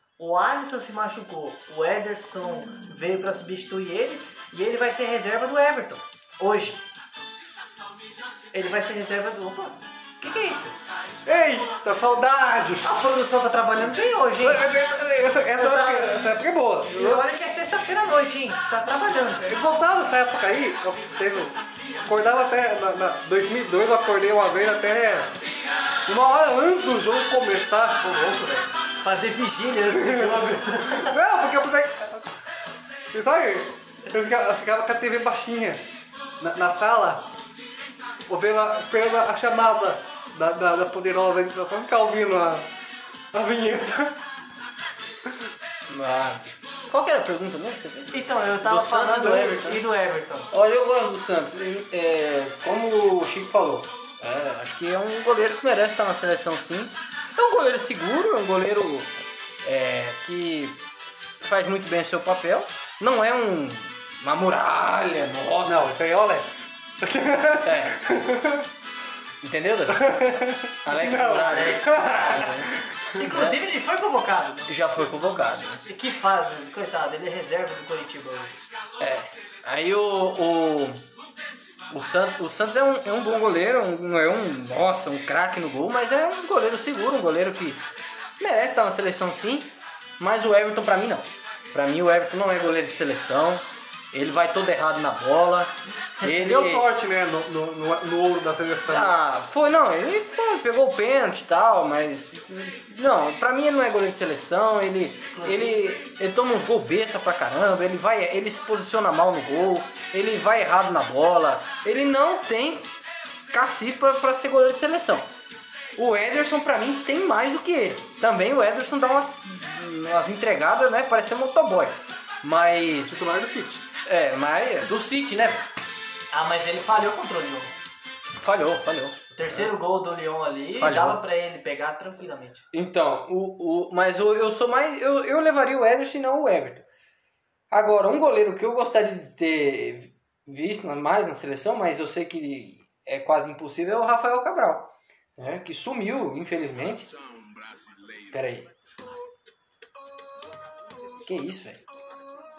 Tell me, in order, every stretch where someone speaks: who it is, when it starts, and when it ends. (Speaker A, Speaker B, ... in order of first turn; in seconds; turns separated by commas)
Speaker A: 0.2-6.8, Speaker A: 8.5-10.8, Speaker B: 11.2-13.1, Speaker A: 12.8-14.7, Speaker B: 14.4-17.3, Speaker A: 15.6-19.5, Speaker B: 19.4-25.4, Speaker B: 26.1-28.1, Speaker A: 28.0-31.1, Speaker B: 29.9-32.3, Speaker B: 33.1-35.8, Speaker B: 36.4-37.3, Speaker B: 38.3-42.7, Speaker B: 43.3-44.2, Speaker C: 45.9-49.8, Speaker A: 48.1-50.5, Speaker C: 50.5-59.1, Speaker C: 59.6-60.8, Speaker C: 61.4-65.9, Speaker B: 65.7-68.7, Speaker C: 67.6-68.0, Speaker C: 69.4-72.7, Speaker B: 69.9-72.8, Speaker A: 71.3-74.7, Speaker C: 73.2-73.6, Speaker C: 74.7-75.8, Speaker A: 75.9-78.6, Speaker C: 79.0-81.1, Speaker C: 81.9-87.8, Speaker C: 88.4-96.9, Speaker B: 96.2-99.1, Speaker C: 98.9-112.9, Speaker A: 105.3-105.8, Speaker C: 113.5-115.3, Speaker C: 116.0-123.2, Speaker B: 123.1-123.8, Speaker C: 124.1-125.7, Speaker A: 126.3-127.7, Speaker C: 128.4-129.7, Speaker A: 129.3-132.7, Speaker C: 130.8-131.2, Speaker C: 132.7-136.8, Speaker C: 137.7-147.1, Speaker C: 148.3-148.7, Speaker C: 151.2-151.8